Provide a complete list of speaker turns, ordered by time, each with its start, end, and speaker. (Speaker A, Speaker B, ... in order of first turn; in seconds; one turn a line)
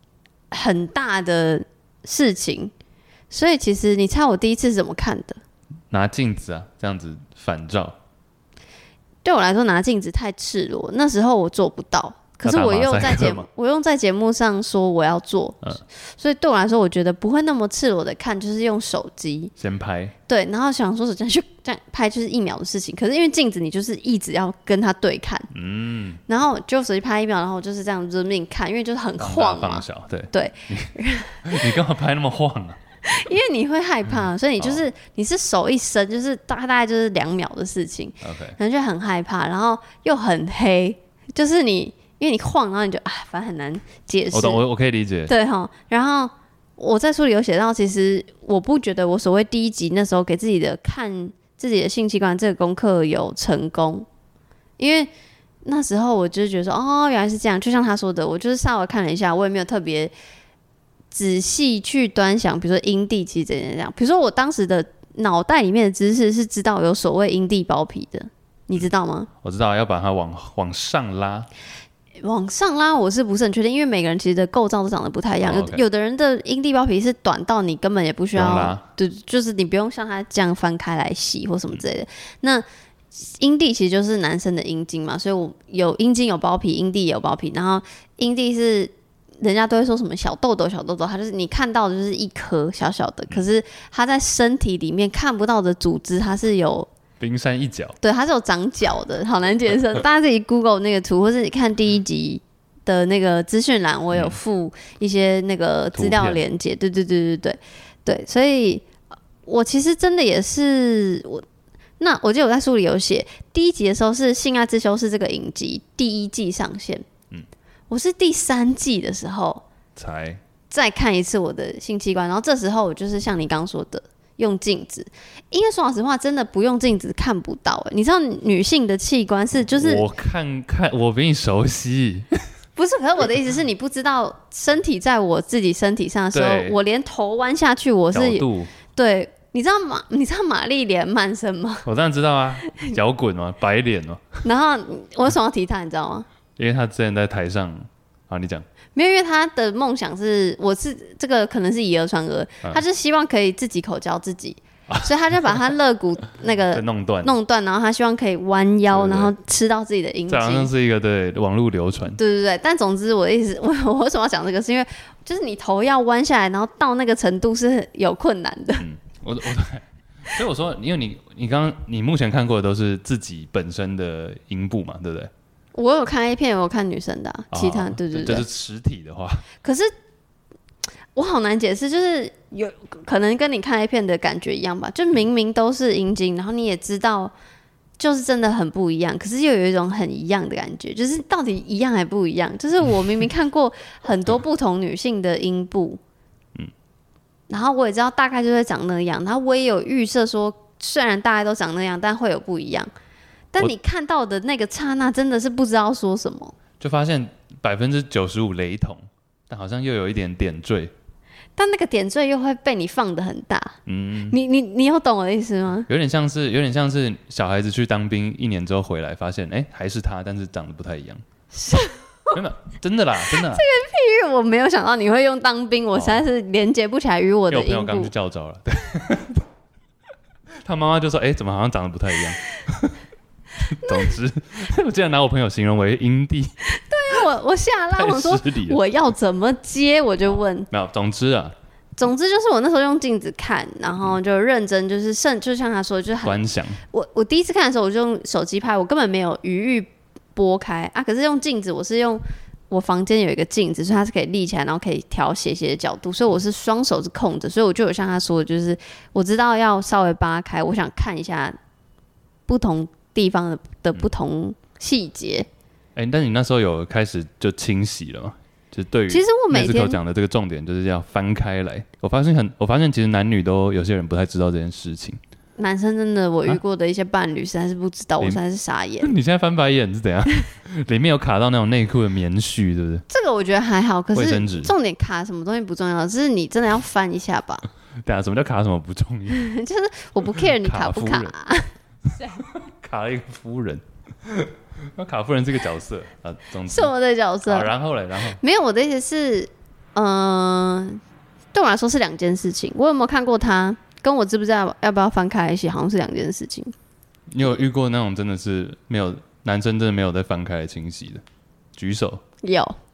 Speaker A: 0.5-2.7
Speaker A: 3.3-5.4
Speaker B: 5.9-8.0
Speaker A: 9.2-19.5
Speaker B: 12.4-13.5
Speaker B: 19.6-20.1
Speaker A: 20.3-25.5
Speaker B: 25.5-26.2
Speaker A: 26.3-31.7
Speaker B: 29.2-32.8
Speaker A: 33.1-44.6
Speaker B: 38.2-38.6
Speaker B: 44.3-45.3
Speaker A: 45.3-54.1
Speaker A: 54.8-55.1
Speaker A: 55.6-60.1
Speaker A: 61.1-69.3
Speaker B: 69.4-71.5
Speaker A: 72.2-96.9
Speaker B: 75.4-75.8
Speaker B: 78.3-78.9
Speaker B: 97.2-98.0
Speaker A: 98.0-108.9
Speaker B: 105.9-106.4
Speaker A: 109.5-111.4
Speaker A: 112.0-117.0
Speaker A: 117.9-119.6
Speaker B: 120.0-120.4
Speaker A: 120.7-130.1
Speaker B: 129.7-132.4
Speaker A: 132.8-141.9
Speaker B: 136.3-136.8
Speaker B: 138.1-138.7
Speaker B: 141.8-144.3
Speaker A: 144.4-146.3
Speaker B: 146.6-148.7
Speaker A: 148.9-160.7
Speaker B: 154.9-155.6
Speaker B: 156.7-157.3
Speaker B: 158.9-159.3
Speaker B: 160.3-162.2
Speaker A: 162.2-168.9
Speaker B: 168.8-175.3
Speaker A: 175.7-178.5
Speaker B: 177.5-179.5
Speaker A: 179.6-179.9
Speaker A: 181.2-187.3
Speaker A: 188.0-196.0
Speaker A: 197.5-202.9
Speaker A: 203.5-206.6
Speaker B: 206.8-210.9
Speaker A: 211.6-213.8
Speaker B: 213.9-214.4
Speaker A: 214.3-215.9
Speaker B: 215.9-221.2
Speaker A: 221.5-222.4
Speaker B: 222.3-223.6
Speaker A: 223.3-228.1
Speaker B: 225.9-226.2
Speaker B: 227.5-229.4
Speaker B: 230.6-233.0
Speaker B: 233.7-236.5
Speaker A: 233.8-234.1
Speaker A: 236.7-240.7
Speaker B: 237.9-238.8
Speaker B: 240.3-241.6
Speaker A: 242.0-246.4
Speaker B: 246.2-246.8
Speaker A: 246.9-261.6
Speaker A: 262.5-265.5
Speaker B: 266.0-275.2
Speaker A: 269.1-270.0
Speaker A: 275.6-279.1
Speaker B: 279.0-283.0
Speaker A: 283.1-287.6
Speaker B: 284.1-284.7
Speaker B: 288.1-289.5
Speaker A: 289.3-291.7
Speaker B: 290.6-291.3
Speaker B: 292.3-296.9
Speaker A: 296.7-297.7
Speaker B: 297.5-298.4
Speaker A: 298.4-301.0
Speaker A: 301.5-306.7
Speaker B: 307.3-311.2
Speaker B: 311.8-312.2
Speaker A: 312.4-312.8